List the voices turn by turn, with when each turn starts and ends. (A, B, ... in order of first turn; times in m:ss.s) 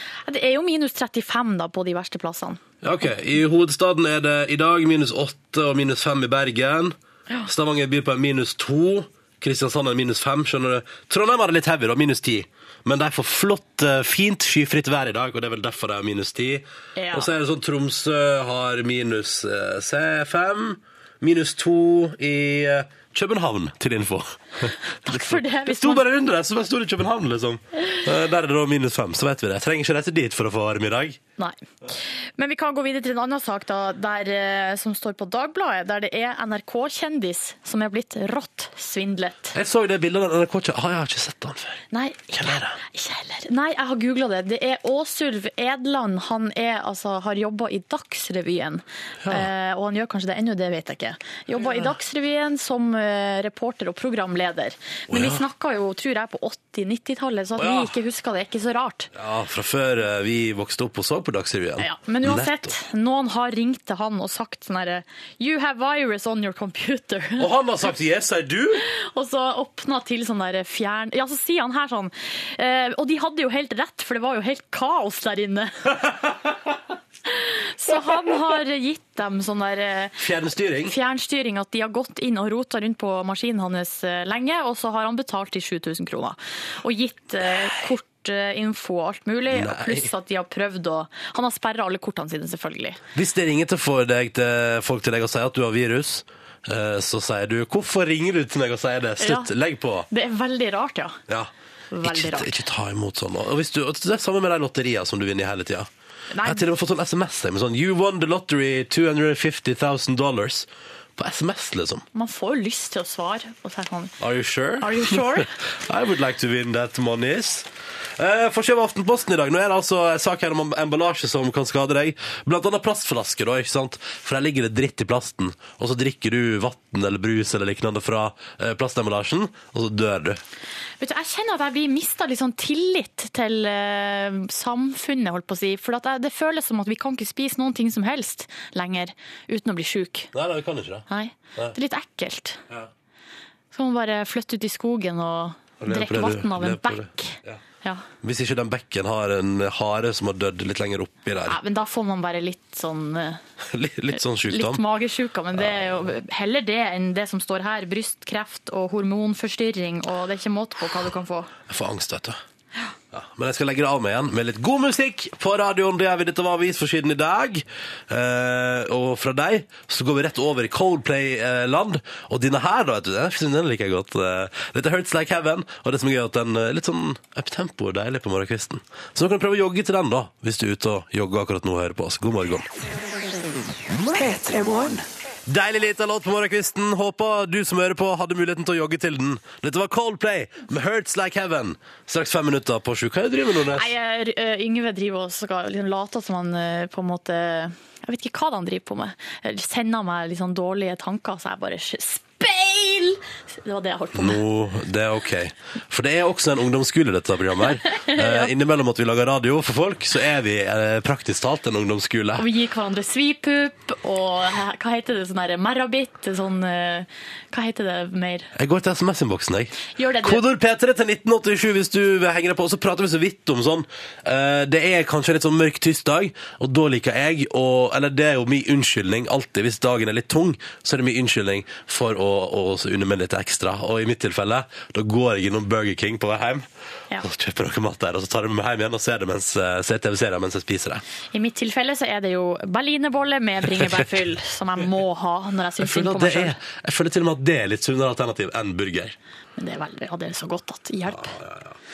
0:00.3-0:02.6 A
0:02.8-0:31.2 B
0:17.0-0:17.3 A
0:25.0-0:26.0 A
0:32.4-0:39.6 A
0:39.5-0:42.8 B
0:41.9-0:42.3 A
0:42.8-0:59.1 A
0:55.1-0:55.4 B
0:57.6-0:57.9 B
0:59.2-1:02.7 B
1:01.8-1:07.5 A
1:07.4-1:08.9 B
1:08.9-1:16.0 A
1:17.3-1:20.2 A
1:20.2-1:21.0 B
1:20.8-1:33.0 A
1:29.5-1:30.1 B
1:33.2-1:40.1 B
1:39.2-1:39.5 A
1:40.1-1:41.2 A
1:41.9-1:42.6 A
1:42.0-1:45.9 B
1:46.3-1:46.6 A
1:46.4-1:52.0 B
1:52.1-1:54.1 A
1:54.2-2:10.4 B
1:54.8-1:55.5 A
2:11.0-2:20.3 A
2:20.3-2:21.0 B
2:21.1-2:22.6 A
2:23.7-2:28.0 A
2:25.8-2:27.6 B
2:28.2-2:31.6 B
2:31.5-2:33.4 A
2:33.7-2:34.8 B
2:34.5-2:41.5 A
2:35.5-2:36.0 B
2:41.7-2:42.4 B
2:43.1-3:02.7 B
3:05.5-3:13.9 B
3:13.7-3:24.4 A
3:24.2-3:32.5 B
3:27.9-3:28.5 A
3:32.4-3:38.5 A
3:38.6-3:56.7 B
3:40.0-3:40.4 A
3:57.2-4:01.0 B
4:01.3-4:06.6 A
4:03.7-4:04.0 B
4:05.8-4:09.2 B
4:09.6-4:11.4 A
4:11.1-4:11.8 B